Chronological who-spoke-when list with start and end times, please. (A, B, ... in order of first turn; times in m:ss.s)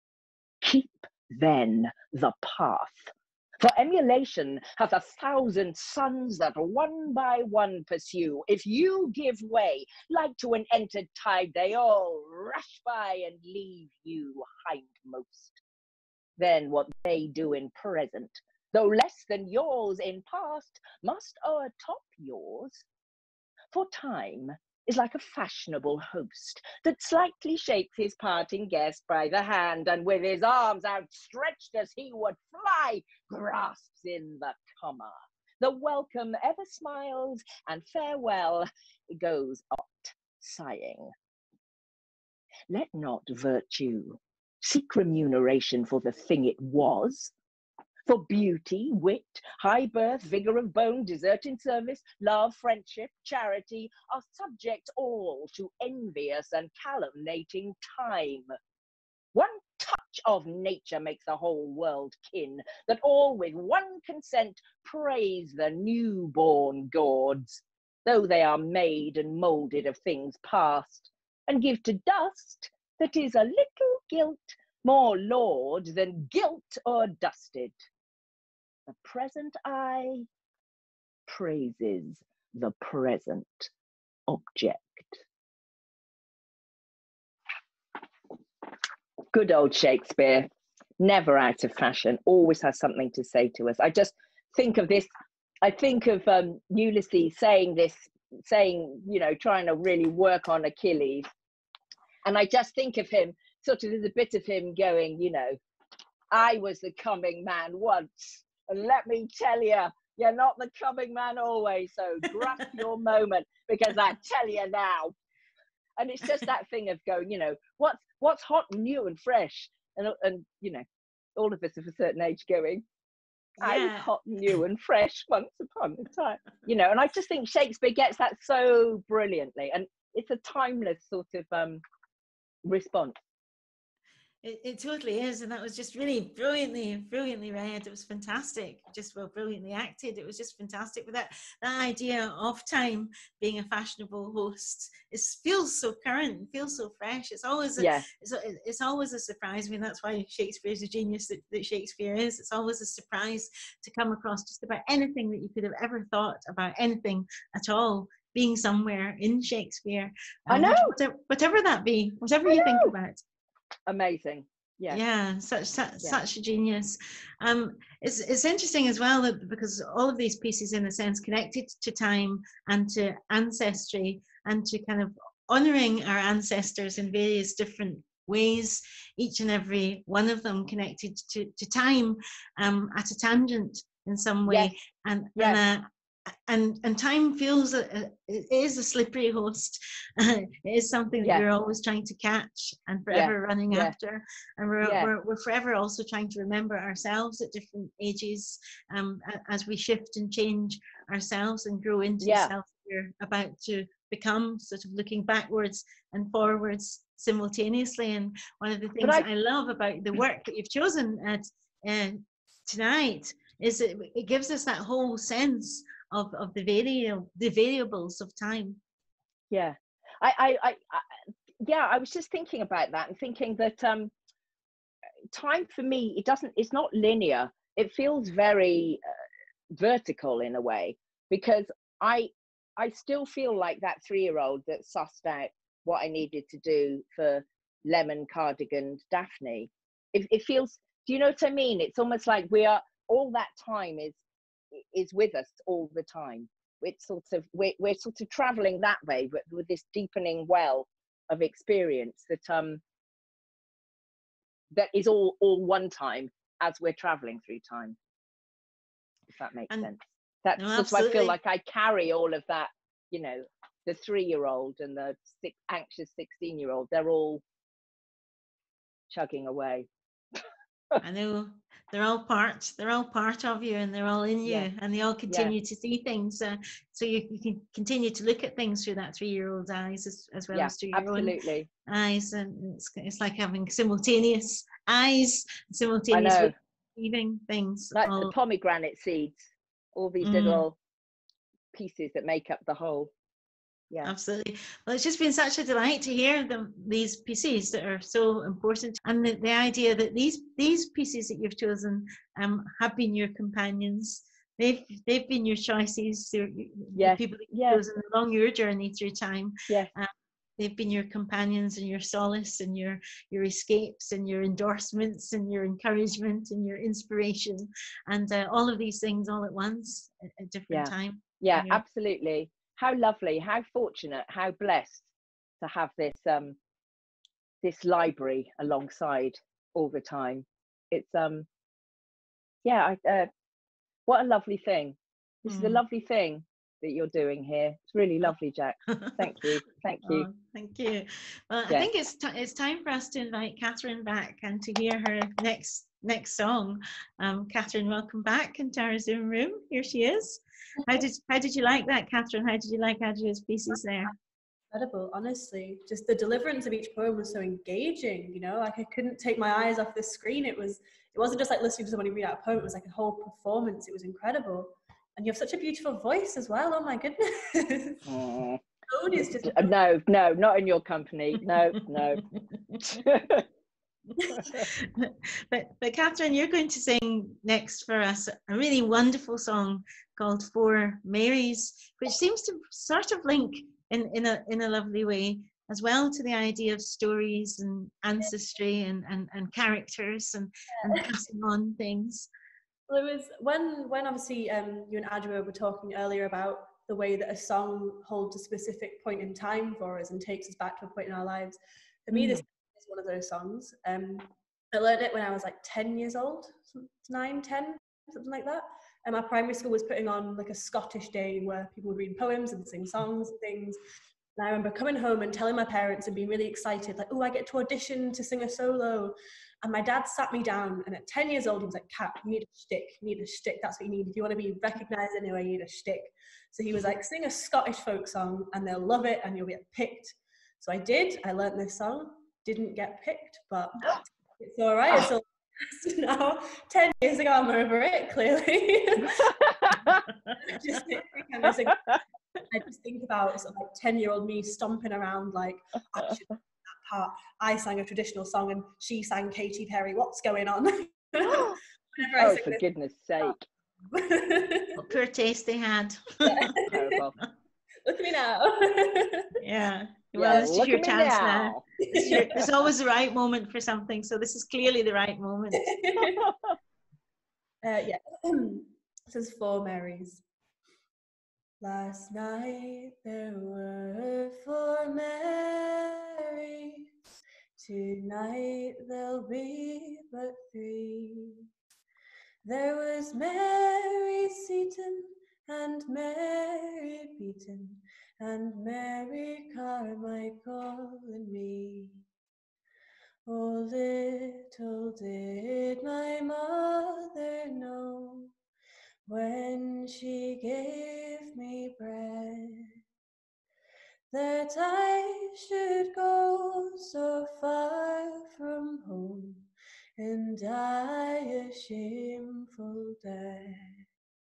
0:00.6-0:15.6 A
0:16.4-0:22.8 A
0:23.7-0:41.1 A
0:42.7-0:47.3 A
0:48.1-0:58.5 A
0:59.3-1:17.7 A
1:18.9-1:20.3 A
1:21.3-1:23.7 A
1:24.3-1:25.2 A
1:29.3-1:35.1 A
1:35.6-1:41.3 A
1:42.2-1:45.6 A
1:46.3-1:55.1 A
1:56.0-2:00.8 A
2:01.4-2:02.8 A
2:03.6-2:11.8 A
2:03.6-2:04.1 B
2:12.6-2:13.2 A
2:14.4-2:43.2 B
2:27.8-2:28.1 A
2:40.5-2:41.0 A
2:42.5-2:42.9 A
2:43.9-2:45.0 A
2:44.9-3:38.8 B
3:04.5-3:04.7 A
3:05.4-3:05.6 A
3:13.1-3:14.0 A
3:14.8-3:15.1 A
3:22.2-3:22.5 A
3:39.5-3:41.0 A
3:41.6-3:44.1 A
3:45.3-3:49.0 A
3:49.7-4:04.2 A
4:04.8-4:12.8 A
4:14.7-4:18.0 A
4:19.3-4:27.4 A
4:20.6-4:21.4 B
4:29.1-4:29.9 A
4:31.0-4:41.4 B
4:34.4-4:34.7 A
4:35.3-4:35.5 A
4:40.5-4:41.7 A
4:41.9-4:48.3 B
4:46.1-4:46.5 A
4:48.0-4:50.8 A
4:50.2-4:50.6 B
4:51.7-4:53.1 A
4:54.0-5:21.8 B
5:07.0-5:07.8 A
5:20.7-5:25.0 A
5:25.6-5:26.6 A
5:27.6-5:31.5 A
5:32.6-5:33.3 A
5:34.1-5:40.3 A
5:35.5-5:35.8 B
5:39.0-5:39.3 B
5:40.0-5:54.1 B
5:54.7-6:08.0 C
6:08.0-6:08.6 A
6:08.9-6:09.7 C
6:09.4-6:12.2 A
6:12.3-6:12.8 B
6:12.8-6:13.5 A
6:14.3-6:14.6 A
6:14.4-6:32.3 B
6:30.8-6:31.1 C
6:32.9-6:53.8 C
6:54.4-7:19.4 C
7:19.2-7:20.0 A
7:20.4-7:21.9 C
7:22.5-7:32.6 C
7:31.2-7:31.6 A
7:32.2-7:33.4 A
7:33.9-7:34.8 C
7:34.8-7:36.5 B
7:36.3-7:36.8 C
7:36.7-7:37.2 A
7:37.8-7:39.4 C
7:39.4-7:45.7 B
7:40.2-7:41.6 A
7:41.9-7:42.4 C
7:45.6-7:46.3 C
7:46.0-7:46.5 A
7:47.6-7:50.2 C
7:51.6-7:56.9 C
7:57.6-8:01.5 C
8:02.4-8:12.0 C
8:13.3-8:18.3 C
8:19.1-8:22.8 C
8:24.1-8:33.8 C